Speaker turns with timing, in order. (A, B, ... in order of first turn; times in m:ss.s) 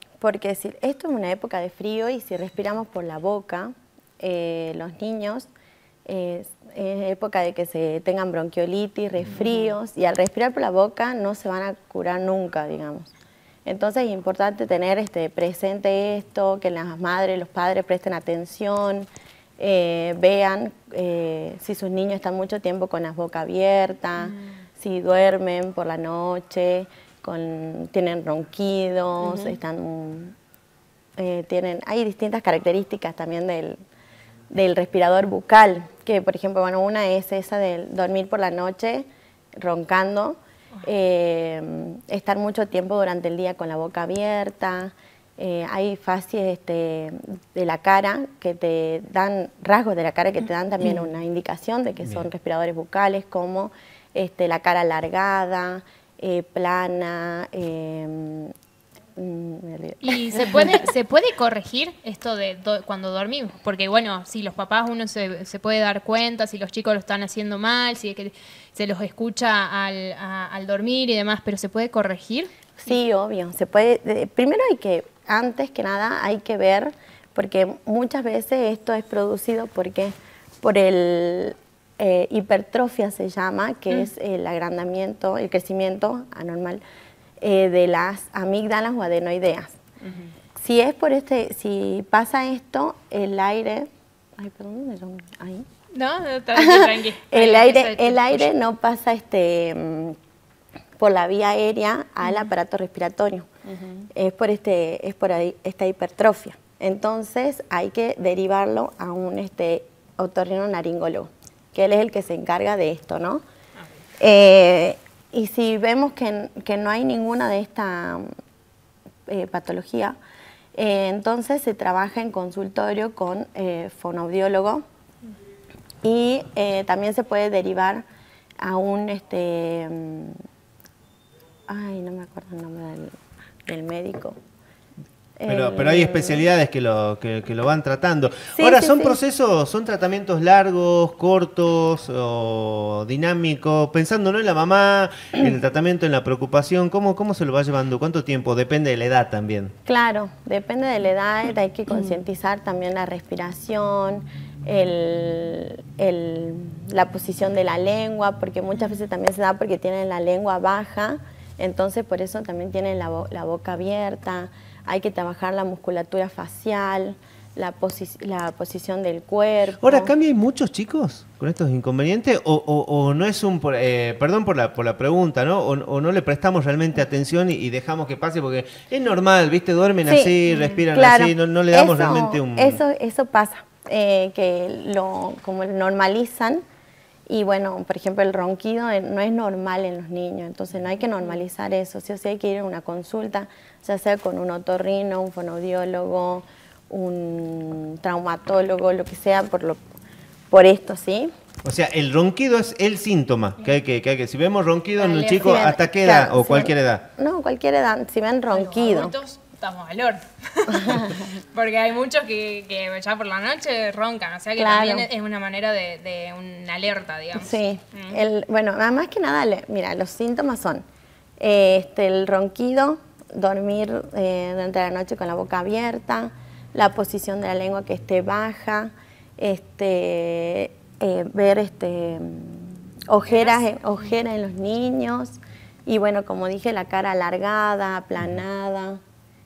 0:00.2-0:05.5 A
0:06.1-0:13.1 A
0:09.3-0:09.7 B
0:13.7-0:19.1 A
0:19.6-0:30.3 A
0:24.2-0:24.5 B
0:31.2-0:33.8 A
0:34.5-0:39.1 A
0:39.6-0:58.5 A
0:52.0-0:52.3 C
0:59.2-1:00.9 A
1:00.0-1:12.5 B
1:12.8-1:26.8 A
1:27.4-1:29.8 A
1:30.6-1:35.6 A
1:35.9-1:38.5 B
1:36.5-1:40.1 A
1:41.0-1:43.5 A
1:44.1-1:53.4 A
1:54.2-1:58.3 A
1:59.3-2:00.2 A
2:00.7-2:04.8 A
2:06.0-2:08.0 A
2:08.6-2:10.4 A
2:11.7-2:13.1 A
2:13.7-2:14.4 A
2:15.4-2:16.4 A
2:15.5-2:29.7 C
2:18.6-2:19.2 A
2:29.9-2:50.1 A
2:49.8-3:02.8 C
3:00.0-3:00.4 A
3:00.9-3:06.6 A
3:07.3-3:19.8 A
3:20.5-3:21.3 A
3:21.6-3:27.1 C
3:25.0-3:25.6 B
3:25.4-3:29.2 A
3:28.5-3:38.2 B
3:30.7-3:31.2 A
3:34.6-3:35.1 A
3:37.3-3:40.8 A
3:41.4-3:59.0 A
3:53.3-3:54.1 B